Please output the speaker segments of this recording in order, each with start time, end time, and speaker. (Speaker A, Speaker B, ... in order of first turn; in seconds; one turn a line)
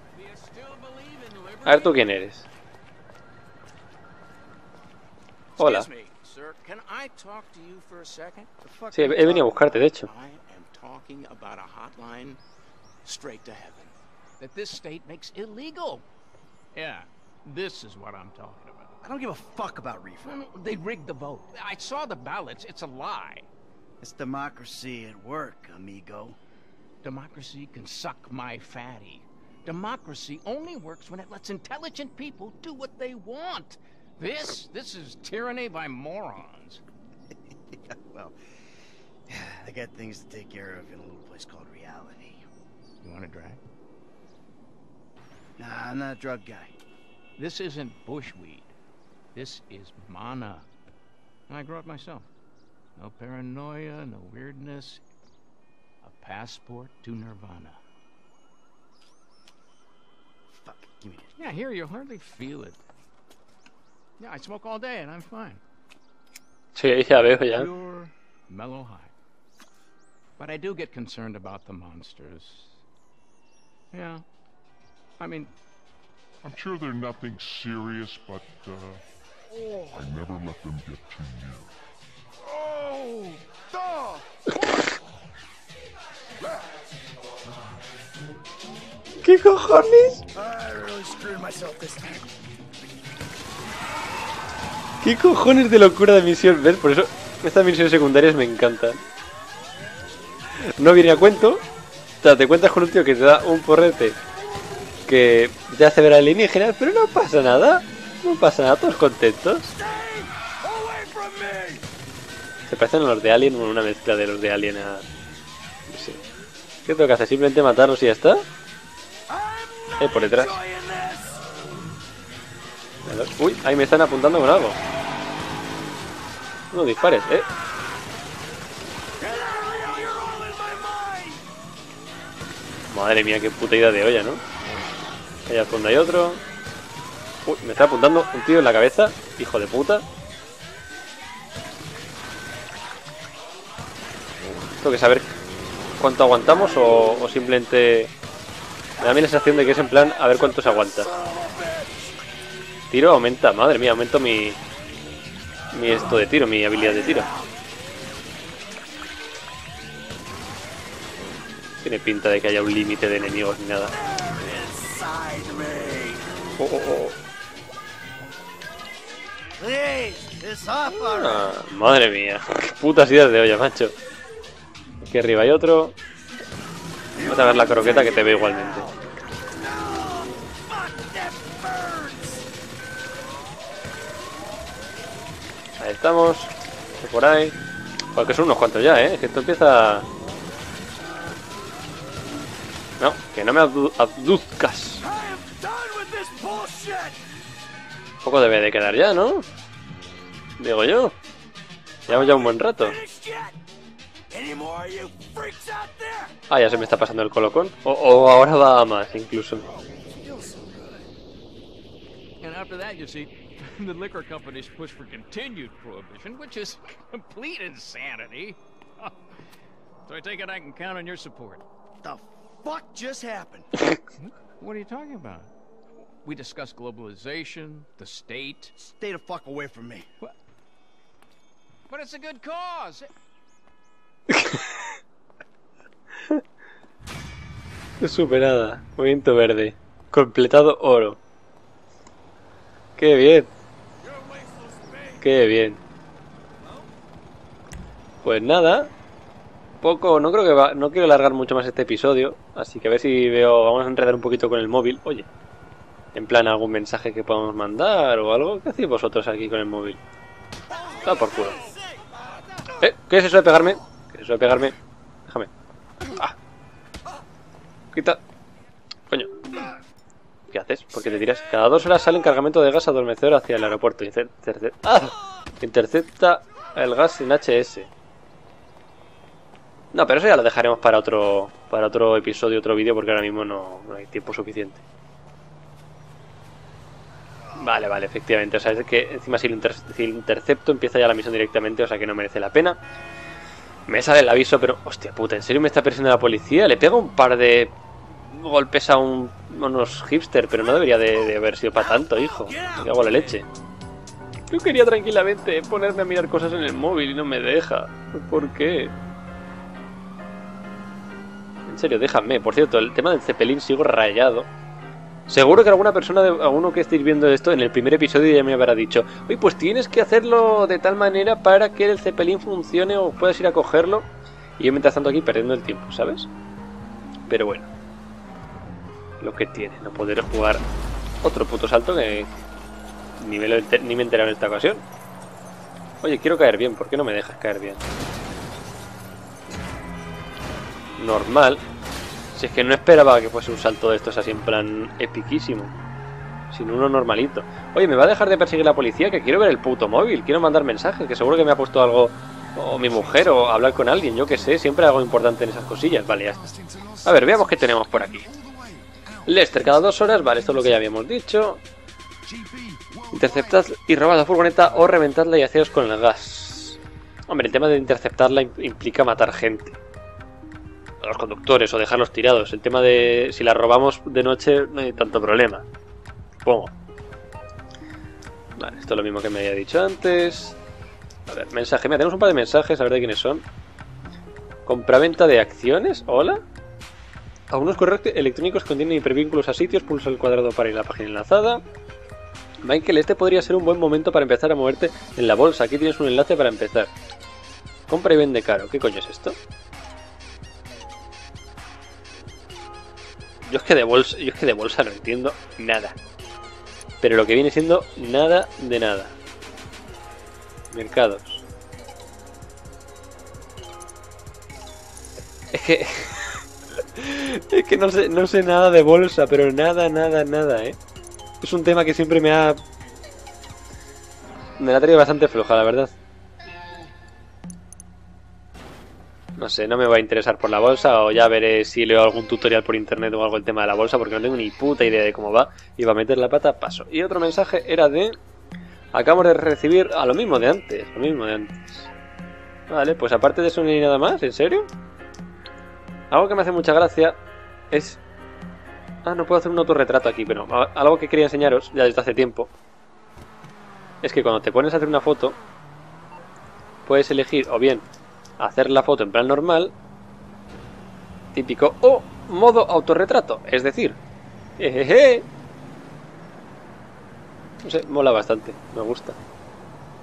Speaker A: 0.1-2.1
Speaker B: 1.6-2.4
Speaker A: 5.6-12.4
Speaker B: 5.6-5.9
Speaker B: 8.9-10.1
Speaker A: 13.0-16.0
Speaker A: 16.7-18.9
Speaker C: 19.0-20.4
Speaker A: 20.2-23.5
Speaker C: 24.0-26.4
Speaker A: 27.0-36.8
Speaker C: 37.7-38.4
Speaker C: 39.3-42.4
Speaker A: 43.0-43.6
Speaker C: 45.6-46.7
Speaker A: 47.4-48.7
Speaker A: 49.3-50.6
Speaker A: 51.5-52.2
Speaker A: 53.0-55.0
Speaker A: 56.0-57.8
Speaker C: 60.5-61.3
Speaker A: 61.4-62.8
Speaker A: 64.2-65.6
Speaker B: 66.7-67.7
Speaker A: 67.1-69.1
Speaker A: 70.4-72.8
Speaker A: 73.9-74.2
Speaker A: 75.2-75.5
Speaker D: 76.4-79.0
Speaker C: 79.5-80.0
Speaker D: 79.9-81.7
Speaker C: 82.4-84.8
Speaker B: 89.2-90.2
Speaker C: 90.3-92.3
Speaker B: 95.0-99.0
Speaker B: 100.7-101.6
Speaker B: 102.2-104.2
Speaker B: 105.1-109.7
Speaker C: 109.8-111.8
Speaker B: 112.7-115.0
Speaker B: 115.9-116.2
Speaker B: 116.8-118.5
Speaker C: 119.3-121.5
Speaker B: 120.0-120.6
Speaker B: 123.0-124.8
Speaker B: 126.7-127.5
Speaker C: 129.2-131.4
Speaker B: 132.9-134.4
Speaker B: 135.5-136.4
Speaker B: 137.4-140.0
Speaker B: 144.8-145.3
Speaker B: 146.0-148.1
Speaker B: 149.0-151.1
Speaker C: 151.1-151.9
Speaker B: 152.9-154.6
Speaker B: 155.7-157.3
Speaker C: 156.7-157.5
Speaker B: 161.8-163.9
Speaker C: 163.9-166.3
Speaker B: 166.6-167.1
Speaker C: 169.6-171.5
Speaker B: 170.9-173.9
Speaker B: 175.0-175.9
Speaker C: 177.2-179.0
Speaker B: 177.2-178.9
Speaker C: 179.5-182.4
Speaker B: 185.8-187.6
Speaker B: 188.1-190.1
Speaker B: 193.0-195.0
Speaker C: 195.0-197.2
Speaker B: 198.2-199.4
Speaker B: 200.6-201.1
Speaker C: 202.1-203.6
Speaker B: 202.1-203.0
Speaker C: 204.3-206.3
Speaker B: 206.5-209.6
Speaker C: 209.7-211.1
Speaker A: 212.4-219.1
Speaker A: 220.0-221.6
Speaker C: 222.0-223.7
Speaker A: 224.2-225.5
Speaker A: 226.2-228.7
Speaker C: 228.8-230.1
Speaker A: 231.9-233.1
Speaker B: 234.3-234.7
Speaker B: 238.0-241.2
Speaker B: 243.0-243.5
Speaker C: 244.1-245.2
Speaker B: 245.2-245.8
Speaker B: 248.2-248.9
Speaker B: 249.8-255.3
Speaker B: 256.1-260.0
Speaker C: 260.7-261.6
Speaker B: 261.0-261.6
Speaker B: 262.8-264.7
Speaker B: 266.1-266.3
Speaker B: 267.9-268.2
Speaker B: 270.5-277.9
Speaker B: 279.9-284.8
Speaker B: 287.6-292.8
Speaker B: 293.9-303.4
Speaker C: 301.8-303.3
Speaker B: 304.5-308.9
Speaker B: 311.7-314.5
Speaker B: 315.3-324.1
Speaker B: 324.6-326.3
Speaker B: 327.3-327.7
Speaker B: 329.2-330.6
Speaker B: 331.2-332.3
Speaker B: 333.2-334.8
Speaker B: 336.0-337.8
Speaker B: 341.0-341.6
Speaker B: 342.3-345.7
Speaker B: 346.5-358.3
Speaker C: 356.5-357.3
Speaker C: 357.9-359.3
Speaker B: 359.2-361.6
Speaker C: 362.2-363.6
Speaker B: 363.1-369.8
Speaker B: 371.0-375.6
Speaker B: 376.4-376.7
Speaker B: 378.6-380.6
Speaker B: 381.3-383.4
Speaker B: 384.7-386.4
Speaker B: 387.5-391.6
Speaker B: 392.6-396.9
Speaker B: 397.9-399.4
Speaker B: 403.4-405.9
Speaker B: 407.0-409.1
Speaker B: 410.7-411.4
Speaker B: 415.5-416.4
Speaker B: 416.9-420.8
Speaker B: 421.4-422.6
Speaker B: 424.6-425.9
Speaker B: 429.4-438.2
Speaker B: 438.9-441.9
Speaker B: 442.7-444.7
Speaker B: 446.1-447.2
Speaker B: 447.7-448.0
Speaker B: 449.0-452.5
Speaker B: 454.0-455.4
Speaker B: 456.9-457.9
Speaker B: 458.4-459.7
Speaker B: 461.3-464.0
Speaker B: 464.6-465.2
Speaker B: 467.6-469.2